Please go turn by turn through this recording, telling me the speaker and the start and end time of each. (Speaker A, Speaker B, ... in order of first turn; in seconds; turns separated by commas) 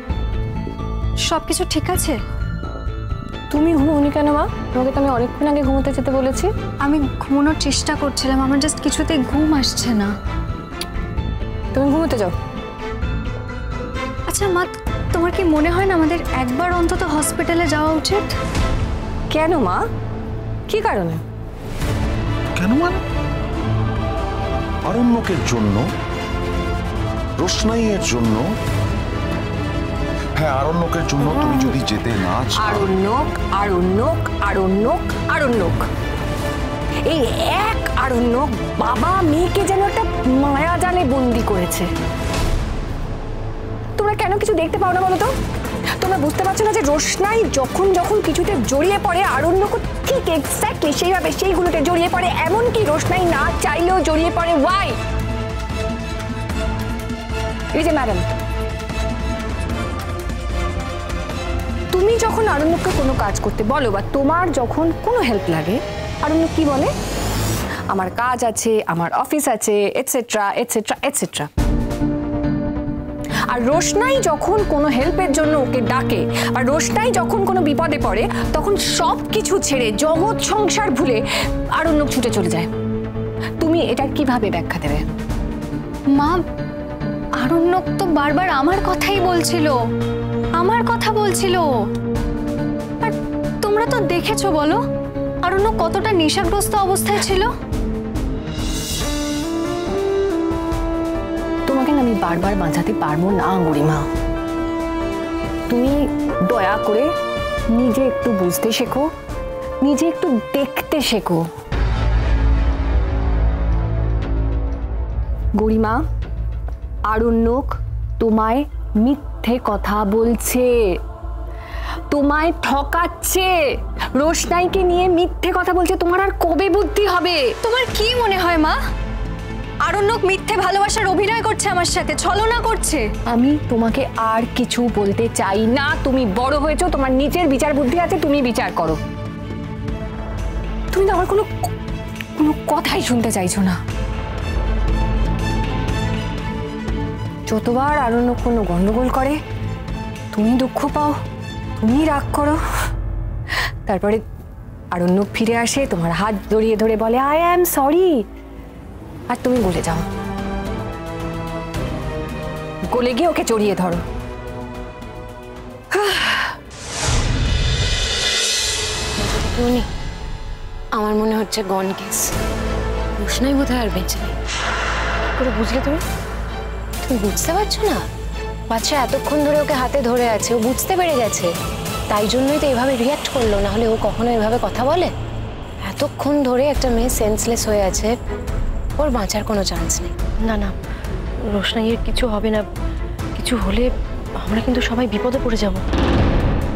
Speaker A: 1.3-2.2, Speaker B: 3.5-6.5, Speaker A: 6.8-10.1, Speaker B: 11.7-12.3, Speaker A: 14.3-18.3, Speaker B: 19.3-19.8, Speaker B: 20.7-21.2, Speaker C: 22.6-23.0, Speaker C: 24.9-25.9, Speaker C: 27.4-28.5, Speaker C: 30.4-32.9, Speaker B: 32.6-35.9, Speaker B: 37.0-41.9, Speaker B: 44.0-45.3, Speaker B: 46.0-55.0, Speaker B: 57.7-58.3, Speaker B: 61.9-66.9, Speaker B: 67.9-71.5, Speaker B: 73.5-81.2, Speaker B: 81.8-82.7, Speaker B: 83.6-85.0, Speaker A: 86.2-86.4, Speaker A: 87.4-89.8, Speaker A: 90.6-91.7, Speaker A: 93.0-94.8, Speaker A: 95.4-97.5, Speaker B: 101.7-104.0, Speaker B: 105.7-107.1, Speaker B: 107.7-109.1, Speaker B: 109.8-111.5, Speaker B: 115.6-116.0, Speaker B: 117.1-121.0, Speaker B: 122.1-127.6, Speaker A: 127.6-128.8, Speaker A: 129.8-133.1, Speaker B: 133.2-139.0, Speaker B: 140.9-141.5, Speaker B: 142.3-143.8, Speaker B: 147.5-149.4, Speaker B: 150.3-151.2, Speaker B: 151.8-152.6, Speaker B: 153.9-154.2, Speaker B: 154.9-158.3, Speaker B: 159.3-160.1, Speaker B: 162.9-164.0, Speaker B: 165.9-166.5, Speaker D: 169.2-169.9, Speaker E: 170.9-172.4, Speaker E: 173.2-174.3, Speaker D: 175.4-176.1, Speaker E: 177.0-178.1, Speaker E: 178.7-181.5, Speaker E: 182.1-185.1, Speaker E: 185.9-188.2, Speaker E: 189.0-190.1, Speaker D: 190.4-190.8, Speaker D: 191.4-192.7, Speaker D: 193.4-195.8